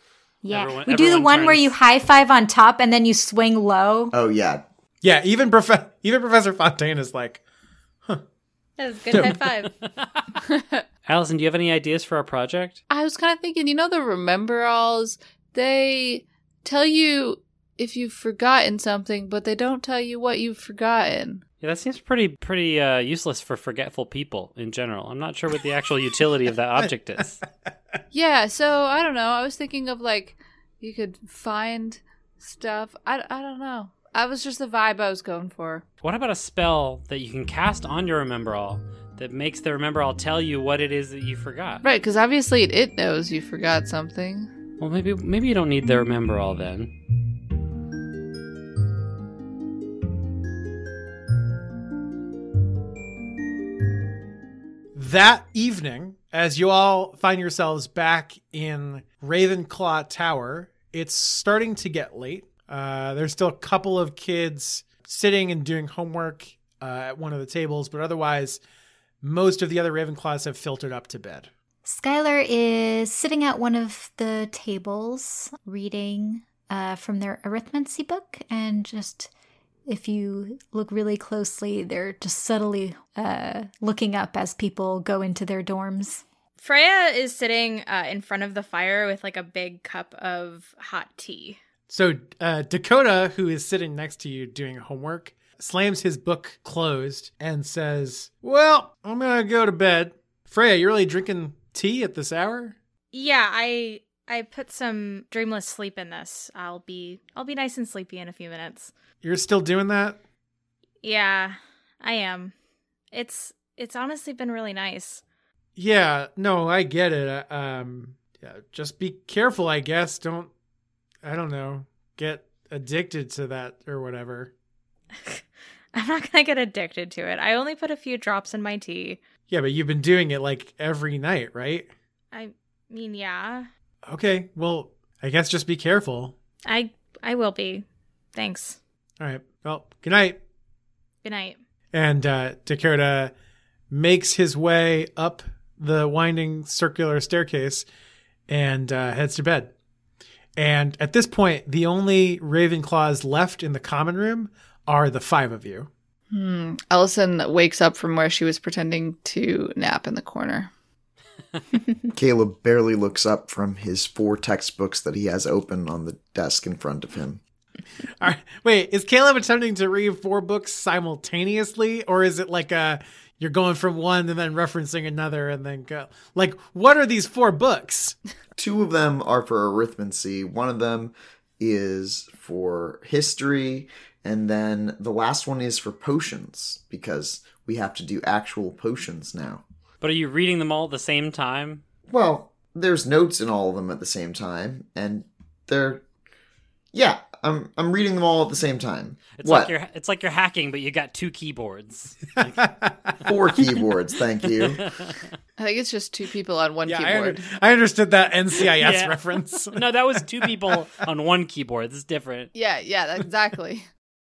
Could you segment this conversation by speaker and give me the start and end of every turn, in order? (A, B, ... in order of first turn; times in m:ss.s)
0:00.4-0:04.1 A
0:00.5-0:01.7 B
0:04.1-0:04.6 C
0:05.0-0:07.4 D
0:08.8-0:09.7 E
0:09.1-0:09.4 D
0:09.8-0:10.3 B
0:10.5-0:10.8 F
0:11.1-0:12.8 B
0:12.9-0:21.4 F
0:21.6-0:27.4 B
0:28.1-0:35.8 F
0:36.0-0:41.8 B
0:41.8-0:44.5 F
0:44.8-0:46.9 B
0:55.0-1:08.6 D
1:09.2-1:11.5 D
1:11.8-1:19.3 A
1:19.9-1:26.2 A
1:26.6-1:31.6 E
1:31.9-1:42.8 D
1:43.1-1:48.9 E
1:49.2-1:50.2 D
1:51.0-1:52.5 E
1:53.1-1:55.2 E
1:55.8-2:00.5 D
2:01.2-2:04.5 D
2:05.9-2:09.2 E
2:09.5-2:11.9 D
2:12.3-2:13.7 E
2:14.1-2:16.3 D
2:16.7-2:18.8 E
2:19.2-2:20.4 D
2:21.2-2:21.6 E
2:21.9-2:23.3 D
2:23.9-2:27.9 D
2:28.5-2:29.7 D
2:30.6-2:35.9 D
2:36.3-2:40.7 F
2:42.1-2:47.4 C
2:48.2-2:58.2 D
2:58.6-3:09.6 C
3:10.0-3:11.8 B
3:12.1-3:16.0 C
3:16.9-3:19.7 C
3:19.4-3:23.3 B
3:22.6-3:23.2 D
3:23.3-3:24.8 C
3:24.6-3:25.3 B
3:25.6-3:27.4 F
3:26.8-3:30.8 D
3:28.8-3:32.5 B
3:32.5-3:33.9 F